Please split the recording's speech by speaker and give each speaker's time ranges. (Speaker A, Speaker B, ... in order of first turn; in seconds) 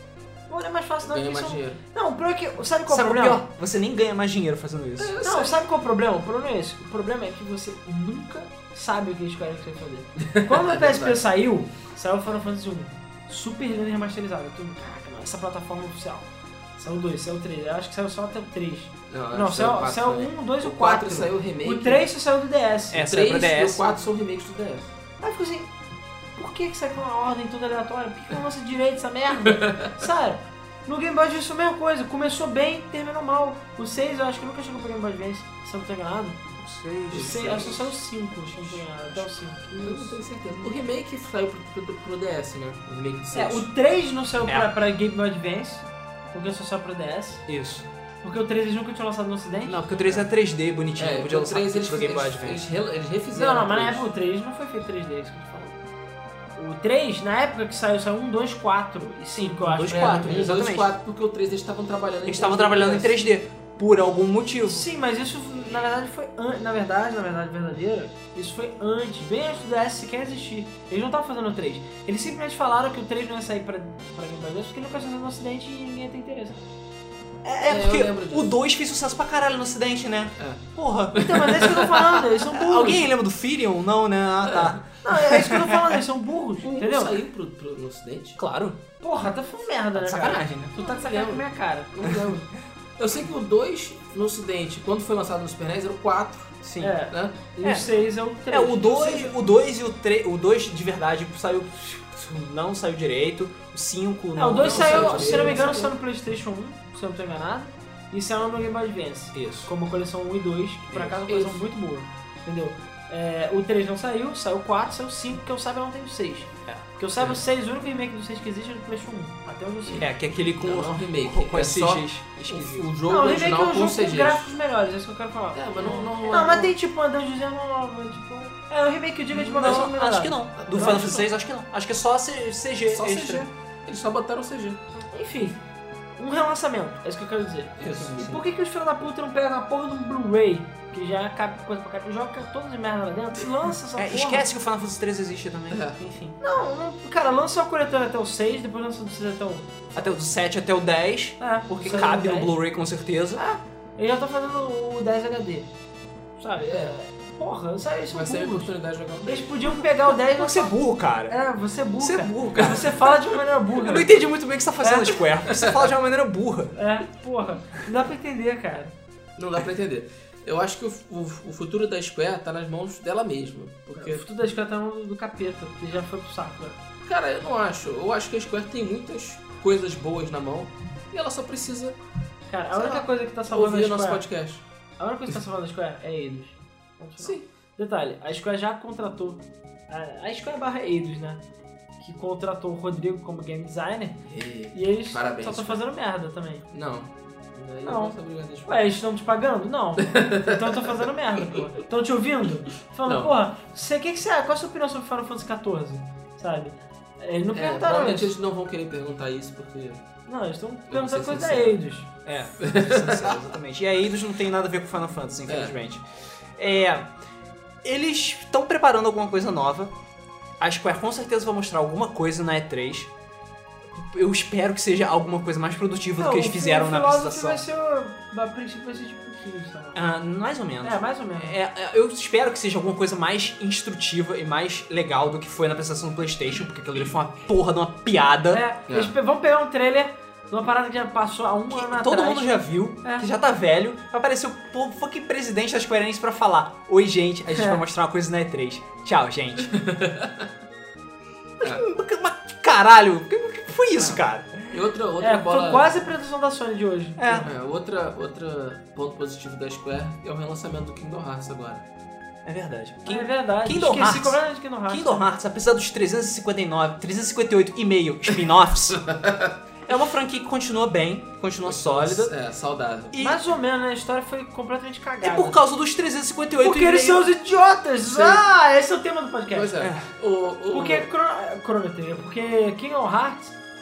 Speaker A: 0.5-3.4, 5.2-23.0, 25.2-25.7, 26.4-36.4, 37.1-40.2, 43.3-47.4, 48.2-50.2, 53.3-55.8, 56.6-60.5, 64.7-76.6, 81.1-83.0, 85.0-87.2, 89.0-92.3, 96.8-99.3, 104.4-120.1, 123.1-131.1, 135.1-135.6, 136.2-144.4, 146.4-150.1, 151.4-152.5, 153.4-155.7, 156.4-158.7, 159.2-160.8, 161.3-164.2, 164.8-165.2, 166.8-168.9, 173.9-176.8, 182.5-184.2, 185.0-191.4, 192.0-196.7, 197.8-208.3, 210.3-212.1, 226.2-230.0, 230.8-231.6, 238.5-243.2, 247.5-247.8, 255.2-257.5, 263.1-265.3, 273.2-275.6, 276.6-279.7, 280.7-283.6
Speaker B: 1.0-1.8, 5.0-5.6, 10.2-11.2, 19.1-22.1, 23.0-24.9, 29.5-29.9, 37.1-37.9, 39.8-43.7, 51.0-54.1, 59.9-63.2, 77.6-78.5, 81.1-82.3, 84.5-84.8, 86.6-88.4, 90.8-97.4, 104.6-105.9, 110.9-111.6, 120.6-124.5, 125.5-126.7, 130.6-131.3, 132.9-134.8, 137.8-138.4, 145.7-146.0, 156.6-156.9, 158.1-159.6, 165.5-165.9, 169.4-174.2, 177.1-182.0, 182.7-184.6, 187.2-187.4, 194.3-195.8, 196.7-198.8, 200.1-201.6, 203.1-203.3, 207.5-210.0, 210.9-211.8, 212.6-213.4, 215.5-215.8, 238.9-239.1, 249.7-250.5, 254.0-256.0, 257.3-261.9, 269.1-269.6, 271.6-273.2, 278.1-278.4, 279.5-281.1
Speaker C: 2.9-5.1, 22.9-23.9, 36.6-37.7, 47.5-47.9, 49.7-52.6, 59.5-60.9, 62.3-64.9, 77.5-81.7, 82.5-86.0, 88.4-88.8, 90.0-90.7, 96.6-97.0, 97.6-105.8, 109.3-109.7, 120.0-122.9, 129.3-133.5, 144.0-146.4, 149.9-153.4, 160.1-161.4, 162.0-163.1, 163.8-166.8, 212.3-216.0, 216.6-217.1, 217.8-219.9, 220.6-223.1, 223.9-227.6, 229.9-238.6, 241.7-249.8, 251.6-254.8, 257.2-257.5, 262.4-269.1, 269.9-272.3, 273.1-273.4, 275.2-277.2, 279.8-280.1